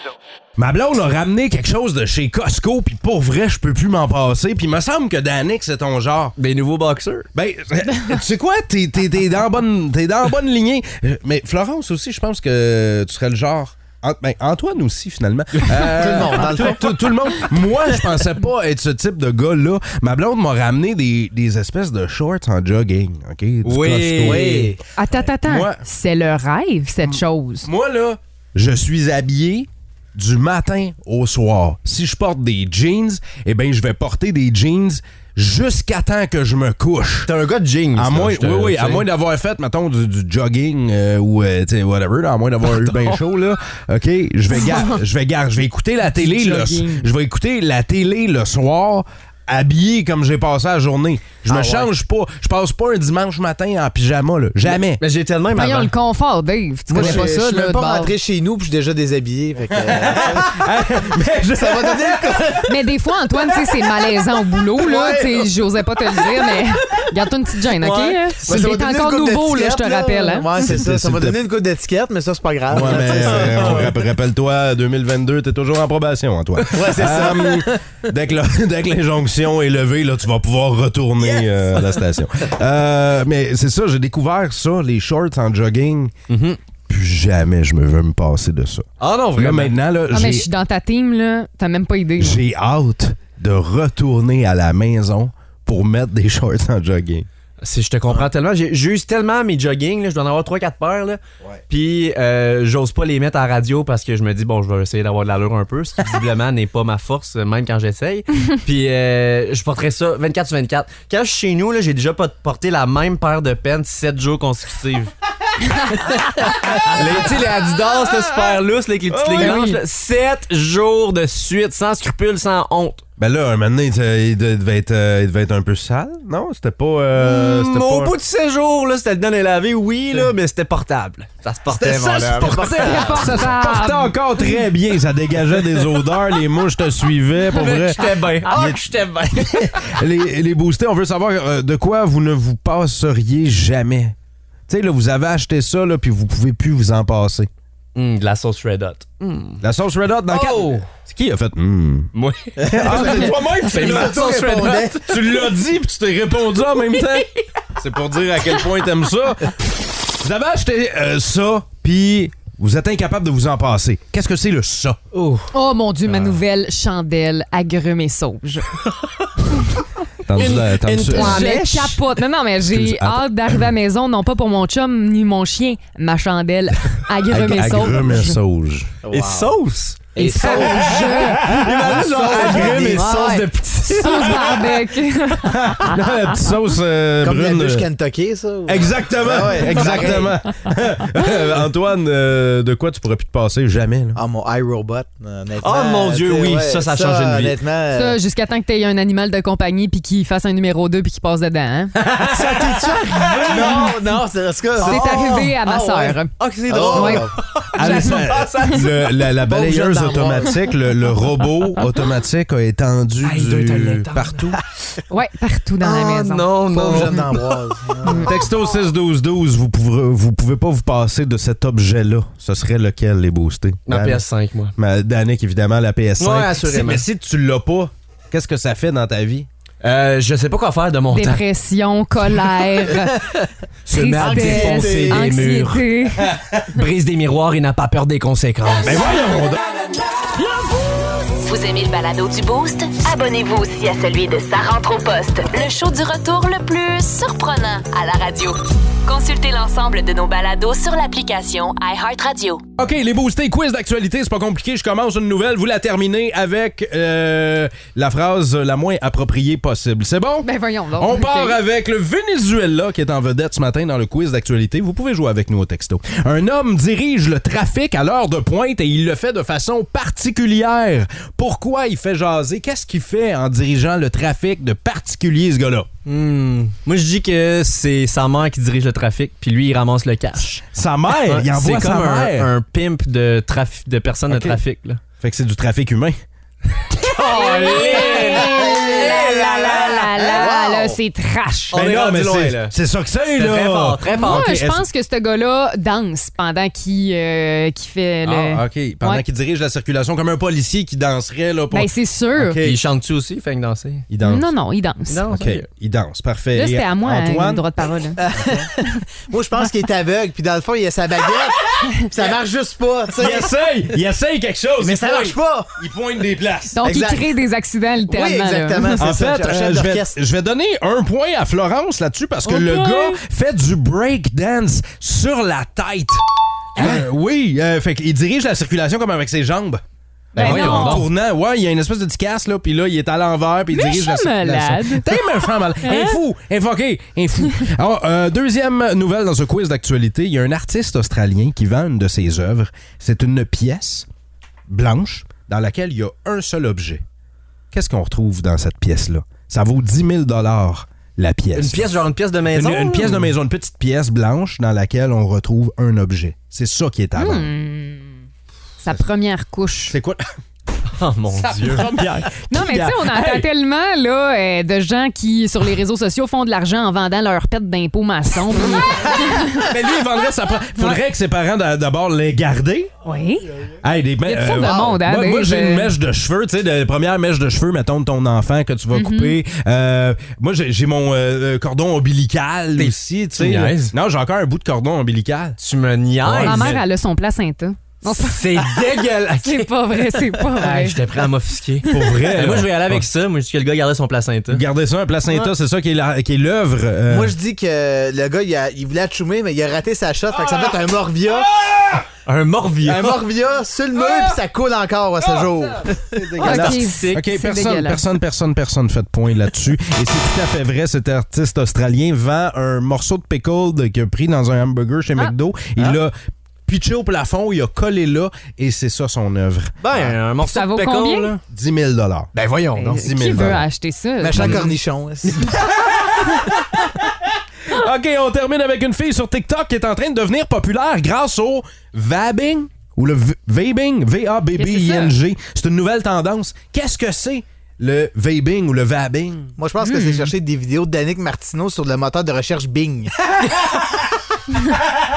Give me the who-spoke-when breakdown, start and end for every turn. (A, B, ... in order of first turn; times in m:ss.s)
0:00.6-0:06.3 A
0:06.4-0:07.3 B
0:07.4-0:25.8 A
0:15.7-0:17.1 C
0:23.6-0:24.7 B
0:24.2-0:24.8 C
0:25.0-0:27.7 D
0:27.1-0:37.3 A
0:37.3-0:39.1 B
0:38.0-0:55.0 A
0:42.6-0:43.2 B
0:46.0-0:47.1 D
0:51.5-0:51.9 C
0:54.6-0:55.9 B
0:55.5-0:58.1 D
0:56.9-1:00.6 C
0:57.0-0:57.3 A
0:59.8-1:02.6 A
1:01.5-1:02.7 C
1:02.7-1:10.5 D
1:04.8-1:05.4 C
1:07.8-1:08.2 B
1:08.4-1:14.0 C
1:10.6-1:11.4 A
1:12.7-1:26.1 A
1:12.8-1:13.8 B
1:16.7-1:17.8 C
1:26.3-1:26.6 B
1:26.9-1:30.5 A
1:29.0-1:29.8 B
1:30.1-1:32.4 D
1:32.2-1:37.3 A
1:37.6-1:55.1 B
1:55.9-2:03.0 B
1:59.1-1:59.6 A
1:59.4-1:59.8 D
2:03.2-2:08.2 A
2:07.2-2:13.2 B
2:11.7-2:24.2 A
2:12.0-2:13.5 C
2:12.8-2:14.6 D
2:17.5-2:19.9 B
2:24.7-2:27.5 A
2:28.0-2:29.6 B
2:29.6-2:32.1 A
2:30.3-2:30.9 B
2:32.1-2:35.4 B
2:32.6-2:35.2 C
2:32.6-2:39.6 A
2:40.2-2:45.0 A
2:45.1-2:45.5 B
2:45.5-2:48.7 D
2:50.2-2:51.5 A
2:50.4-2:52.0 B
2:51.1-2:58.4 D
2:52.6-2:53.6 A
2:57.3-2:58.9 A
2:59.0-2:59.6 C
2:59.1-3:00.7 B
3:00.2-3:03.4 C
3:00.2-3:01.4 D
3:01.4-3:04.6 B
3:01.5-3:02.9 A
3:02.7-3:06.0 D
3:05.4-3:07.8 A
3:07.2-3:10.4 C
3:08.7-3:14.2 A
3:09.8-3:10.2 B
3:14.2-3:18.2 C
3:15.6-3:17.6 B
3:17.9-3:21.9 D
3:22.2-3:24.0 B
3:22.3-3:26.0 C
3:24.8-3:29.1 B
3:24.8-3:26.3 D
3:26.7-3:27.4 C
3:26.9-3:27.3 D
3:27.8-3:34.6 A
3:27.8-3:28.1 D
3:29.4-3:30.6 C
3:33.2-3:34.6 B
3:35.1-3:36.5 D
3:35.8-3:38.4 C
3:36.0-3:37.6 B
3:38.0-3:38.3 D
3:38.2-3:44.2 A
3:43.9-3:44.7 B
3:44.8-3:49.5 A
3:46.2-3:47.0 B
3:49.8-3:51.4 B
3:51.1-3:53.2 D
3:53.9-3:55.9 B
3:53.9-3:56.3 D
3:54.2-3:55.3 C
3:56.7-3:59.0 B
3:58.8-3:59.8 A
4:01.4-4:12.6 E
4:12.8-4:35.9 A
4:20.4-4:21.6 D
4:36.0-4:45.0 B
4:40.7-4:42.5 A
4:44.3-4:44.6 A
4:45.2-4:46.2 A
4:47.0-4:50.5 B
4:47.3-4:51.8 D
4:48.0-4:49.3 C
4:50.2-4:51.0 C
4:51.7-4:52.7 B
4:51.7-4:54.8 A
4:53.3-4:54.6 B
4:54.2-4:59.2 D
4:58.2-5:02.8 A
5:01.7-5:02.6 D
5:02.6-5:04.1 B
5:04.1-5:04.5 A
5:04.2-5:05.2 D
5:05.1-5:05.6 B
5:05.3-5:07.6 A
5:06.6-5:08.2 D
5:08.2-5:13.5 C
5:13.2-5:16.8 A
5:14.8-5:15.7 C
5:16.8-5:19.0 D
5:16.8-5:17.4 C
5:18.1-5:20.2 C
5:19.0-5:26.2 A
5:22.4-5:23.2 D
5:26.8-5:29.8 A
5:30.3-5:31.1 B
5:30.4-5:31.0 D
5:30.4-5:44.1 A
5:33.7-5:35.1 D
5:35.8-5:36.2 D
5:44.7-5:47.0 A
5:47.7-5:51.9 A
5:51.6-5:53.4 B
5:52.5-5:57.5 A
5:57.2-5:58.2 D
5:58.8-6:00.0 D
5:59.9-6:00.3 A
6:00.9-6:02.1 B
6:01.3-6:03.4 A
6:02.4-6:09.7 D
6:09.6-6:12.9 A
6:13.0-6:13.5 D
6:13.8-6:25.6 A
6:14.2-6:15.9 D
6:18.9-6:19.4 D
6:22.8-6:23.9 B
6:25.6-6:26.8 B
6:26.2-6:26.8 A
6:26.4-6:28.7 D
6:28.2-6:29.7 B
6:29.4-6:31.0 D
6:30.4-6:34.6 B
6:31.9-6:33.1 A
6:34.5-6:37.3 A
6:37.1-6:41.5 C
6:41.6-6:42.0 A
6:42.2-6:43.2 B
6:42.8-6:46.3 C
6:44.1-6:44.3 B
6:45.2-6:45.8 B
6:46.1-6:56.1 A
6:46.4-6:47.2 B
6:46.4-6:48.0 D
6:56.7-7:00.2 A
6:59.8-7:01.4 B
7:00.4-7:01.3 D
7:01.5-7:02.3 A
7:02.4-7:03.0 B
7:02.8-7:04.7 D
7:02.9-7:03.6 A
7:04.2-7:05.5 C
7:05.7-7:06.0 A
7:07.7-7:19.5 A
7:14.6-7:15.2 D
7:19.6-7:23.1 C
7:19.8-7:20.3 D